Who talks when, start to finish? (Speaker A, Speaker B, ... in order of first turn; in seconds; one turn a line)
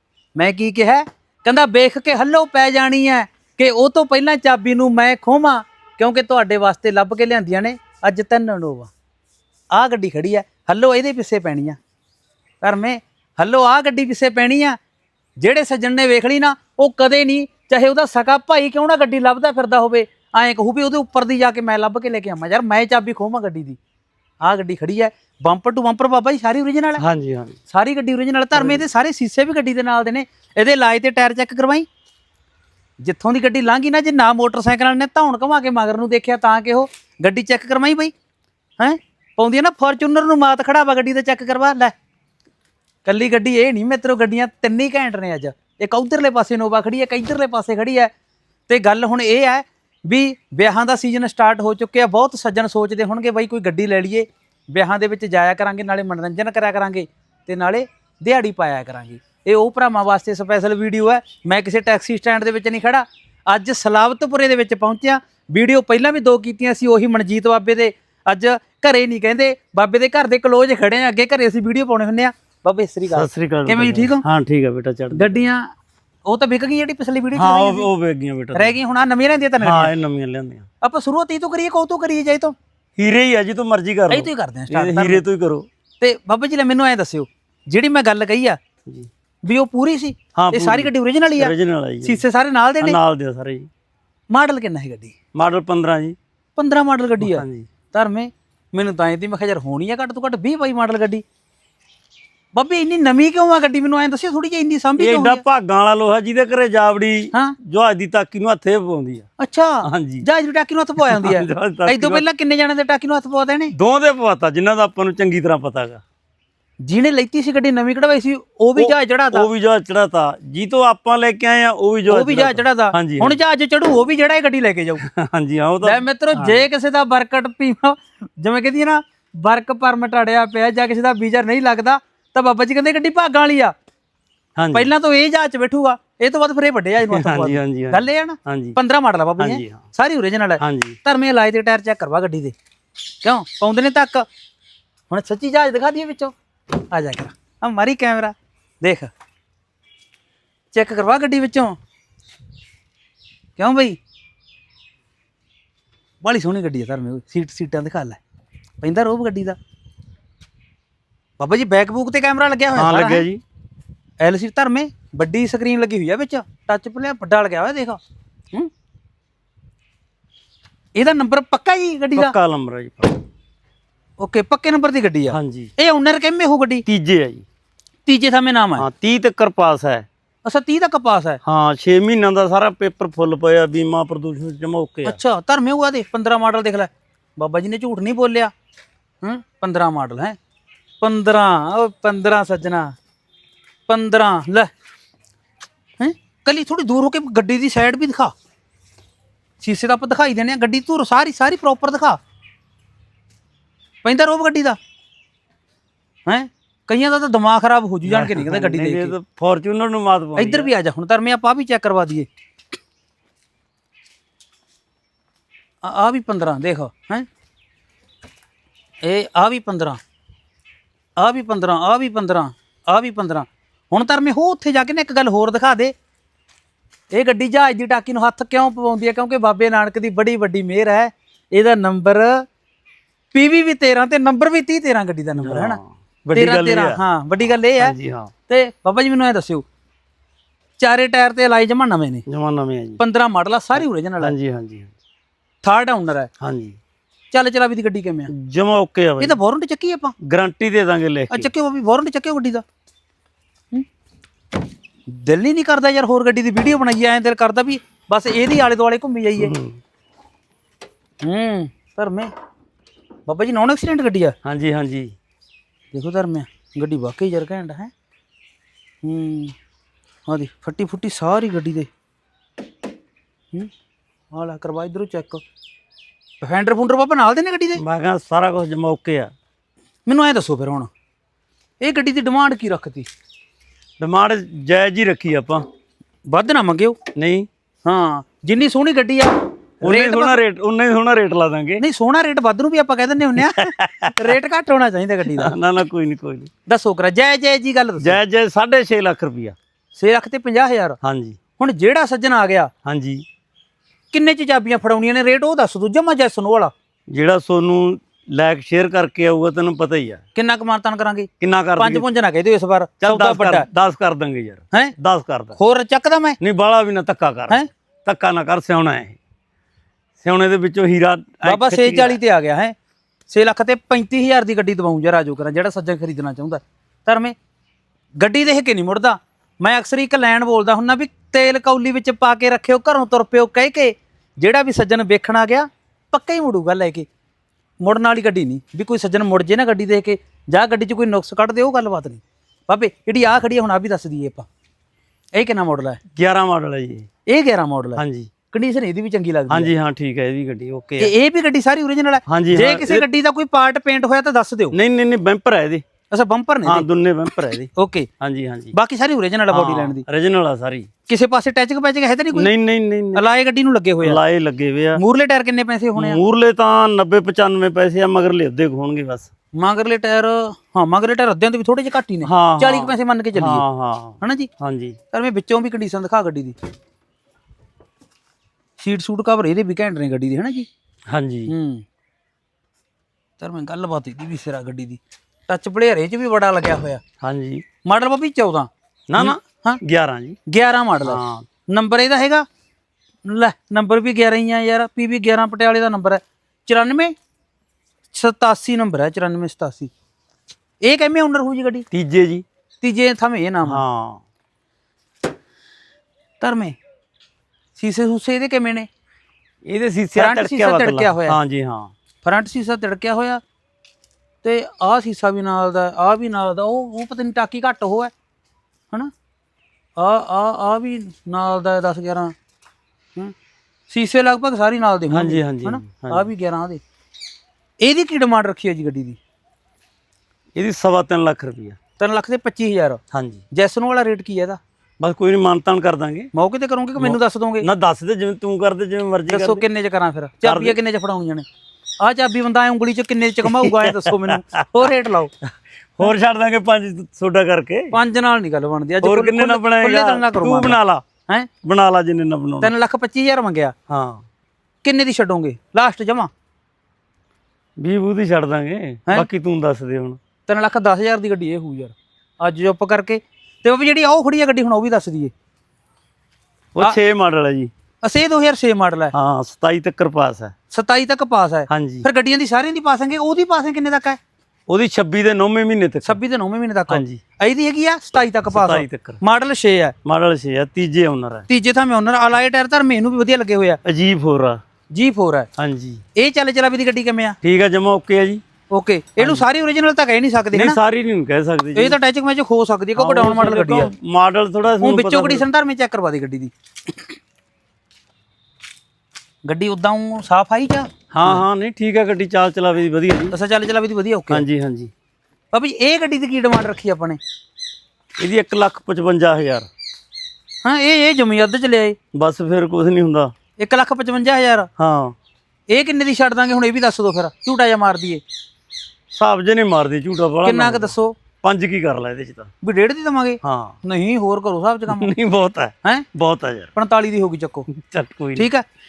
Speaker A: 0.3-8.9
Speaker A: 9.7-11.8
Speaker A: 12.6-14.8
Speaker A: 15.4-23.8
Speaker A: 24.4-27.0
Speaker B: 27.0-27.6
Speaker A: 27.7-31.9
Speaker B: 28.5-28.8
Speaker A: 33.0-38.1
Speaker A: 38.8-41.9
Speaker A: 43.0-48.1
Speaker A: 48.7-74.2
Speaker B: 73.1-75.4
Speaker A: 75.1-75.7
Speaker A: 76.2-77.9
Speaker B: 77.3-78.7
Speaker A: 78.5-79.9
Speaker B: 79.6-80.7
Speaker A: 80.8-82.5
Speaker B: 83.0-85.7
Speaker A: 84.1-85.2
Speaker A: 86.0-88.6
Speaker A: 89.4-93.0
Speaker B: 90.3-92.2
Speaker B: 92.8-93.7
Speaker A: 94.3-95.1
Speaker B: 95.3-96.2
Speaker A: 96.5-101.2
Speaker B: 97.2-97.7
Speaker A: 102.5-105.4
Speaker B: 105.0-109.2
Speaker A: 109.4-113.7
Speaker B: 109.8-110.2
Speaker B: 111.0-112.2
Speaker B: 113.7-116.0
Speaker A: 116.8-119.5
Speaker B: 118.8-123.4
Speaker A: 122.1-125.0
Speaker B: 125.0-126.6
Speaker A: 125.8-133.7
Speaker B: 134.6-134.9
Speaker A: 134.7-142.5
Speaker B: 137.0-138.8
Speaker B: 139.4-139.8
Speaker B: 140.6-141.0
Speaker A: 143.2-144.2
Speaker A: 145.1-149.1
Speaker A: 150.7-151.8
Speaker A: 153.6-154.0
Speaker A: 156.2-158.2
Speaker A: 158.8-159.6
Speaker A: 161.4-163.2
Speaker B: 162.7-163.4
Speaker A: 164.2-168.0
Speaker A: 170.9-172.3
Speaker B: 172.2-173.2
Speaker A: 174.2-176.8
Speaker B: 175.3-175.7
Speaker B: 176.8-177.4
Speaker A: 178.1-178.8
Speaker B: 178.8-180.1
Speaker A: 180.4-181.4
Speaker B: 181.4-185.2
Speaker A: 185.0-188.5
Speaker A: 189.2-190.4
Speaker A: 191.0-192.9
Speaker A: 193.9-194.7
Speaker A: 196.0-198.3
Speaker A: 199.6-202.2
Speaker A: 204.0-204.8
Speaker A: 206.2-209.1
Speaker B: 208.1-210.7
Speaker A: 210.4-212.3
Speaker A: 215.8-217.2
Speaker A: 219.0-220.0
Speaker A: 221.2-225.9
Speaker A: 227.1-232.4
Speaker A: 233.3-235.8
Speaker B: 235.4-238.3
Speaker A: 236.3-237.9
Speaker A: 238.5-239.6
Speaker A: 240.8-242.2
Speaker B: 242.3-243.0
Speaker A: 243.0-244.3
Speaker B: 243.7-244.9
Speaker A: 245.6-246.3
Speaker B: 246.4-246.8
Speaker A: 247.3-248.3
Speaker B: 248.3-249.4
Speaker A: 249.2-250.1
Speaker B: 250.2-251.5
Speaker A: 251.3-252.6
Speaker A: 255.1-259.5
Speaker B: 259.4-259.8
Speaker A: 261.2-262.3
Speaker A: 263.3-264.4
Speaker B: 264.4-265.1
Speaker A: 265.9-267.9
Speaker A: 269.0-269.5
Speaker A: 270.3-271.9
Speaker A: 274.3-275.4
Speaker A: 276.4-277.8
Speaker B: 277.8-279.3
Speaker A: 280.1-280.9
Speaker A: 281.8-283.1
Speaker B: 284.0-285.6
Speaker A: 286.3-287.0
Speaker B: 287.1-287.5
Speaker A: 287.9-290.4
Speaker B: 289.8-291.8
Speaker A: 291.8-295.5
Speaker B: 293.4-294.3
Speaker B: 295.3-296.5
Speaker A: 296.6-298.2
Speaker B: 298.0-299.6
Speaker A: 299.9-301.0
Speaker B: 301.0-301.4
Speaker A: 301.6-302.7
Speaker B: 302.8-303.2
Speaker A: 304.1-306.7
Speaker B: 307.1-310.2
Speaker A: 310.3-313.7
Speaker B: 311.4-312.0
Speaker B: 313.0-315.6
Speaker A: 315.6-316.4
Speaker B: 316.4-319.2
Speaker B: 320.2-322.2
Speaker A: 321.4-322.7
Speaker A: 323.3-327.3
Speaker A: 328.2-337.1
Speaker A: 337.8-344.4
Speaker A: 345.3-346.0
Speaker B: 346.1-347.1
Speaker A: 347.3-349.7
Speaker B: 348.0-348.3
Speaker B: 349.5-351.1
Speaker A: 351.0-354.7
Speaker B: 352.3-353.1
Speaker B: 354.7-355.8
Speaker A: 356.1-356.9
Speaker B: 356.6-358.7
Speaker A: 357.8-358.1
Speaker A: 358.7-360.0
Speaker B: 359.5-360.9
Speaker A: 361.1-362.5
Speaker B: 362.3-363.2
Speaker A: 363.1-364.2
Speaker B: 364.0-365.0
Speaker A: 364.9-366.2
Speaker B: 365.9-369.3
Speaker A: 369.6-373.6
Speaker B: 372.2-375.0
Speaker A: 374.2-374.5
Speaker A: 375.1-376.5
Speaker A: 378.8-380.7
Speaker B: 381.1-381.5
Speaker A: 381.5-381.8
Speaker A: 383.4-387.0
Speaker B: 387.2-387.6
Speaker A: 387.8-389.8
Speaker B: 389.1-390.4
Speaker A: 390.5-392.4
Speaker B: 391.0-391.4
Speaker A: 393.2-397.1
Speaker A: 398.1-399.9
Speaker A: 400.8-401.9
Speaker B: 401.9-402.4
Speaker A: 402.8-403.8
Speaker B: 403.7-404.2
Speaker A: 406.4-406.8
Speaker A: 407.8-408.9
Speaker B: 409.6-411.9
Speaker A: 410.1-411.4
Speaker A: 412.2-413.4
Speaker A: 414.4-418.1
Speaker A: 420.0-422.3
Speaker A: 423.9-426.8
Speaker B: 425.1-426.3
Speaker A: 427.8-429.2
Speaker B: 430.5-431.8
Speaker A: 432.0-433.0
Speaker B: 433.1-433.4
Speaker A: 433.5-434.6
Speaker B: 435.0-436.3
Speaker A: 436.3-437.7
Speaker B: 437.0-439.6
Speaker A: 439.3-441.4
Speaker B: 440.4-440.8
Speaker A: 442.0-445.3
Speaker B: 443.4-444.9
Speaker B: 446.0-448.0
Speaker A: 447.9-451.5
Speaker B: 449.0-451.0
Speaker B: 451.6-452.7
Speaker A: 452.6-453.7
Speaker B: 453.9-454.2
Speaker A: 454.8-456.3
Speaker B: 457.8-460.2
Speaker A: 460.5-465.3
Speaker B: 466.7-467.7
Speaker A: 468.0-469.1
Speaker B: 469.1-470.5
Speaker A: 470.7-474.2
Speaker B: 471.7-472.1
Speaker B: 474.7-476.2
Speaker A: 476.0-479.9
Speaker B: 476.9-477.2
Speaker B: 478.5-479.2
Speaker B: 480.0-481.4
Speaker A: 481.5-483.8
Speaker B: 483.8-484.6
Speaker A: 484.9-485.5
Speaker B: 485.6-486.0
Speaker A: 486.1-487.4
Speaker B: 487.4-488.4
Speaker A: 488.7-490.8
Speaker B: 489.2-489.4
Speaker B: 490.5-492.0
Speaker A: 491.7-493.9
Speaker B: 492.9-495.4
Speaker A: 494.8-497.1
Speaker A: 499.4-501.4
Speaker B: 501.1-503.3
Speaker A: 503.3-504.4
Speaker B: 504.3-504.9
Speaker A: 505.5-507.2
Speaker B: 508.2-509.7
Speaker A: 510.6-512.0
Speaker B: 512.1-513.3
Speaker A: 513.6-514.7
Speaker B: 514.8-515.1
Speaker A: 515.7-518.2
Speaker B: 519.1-522.5
Speaker A: 520.4-521.1
Speaker A: 522.6-525.1
Speaker B: 523.4-523.8
Speaker B: 524.9-526.7
Speaker A: 526.7-527.7
Speaker B: 527.7-528.5
Speaker A: 528.4-528.6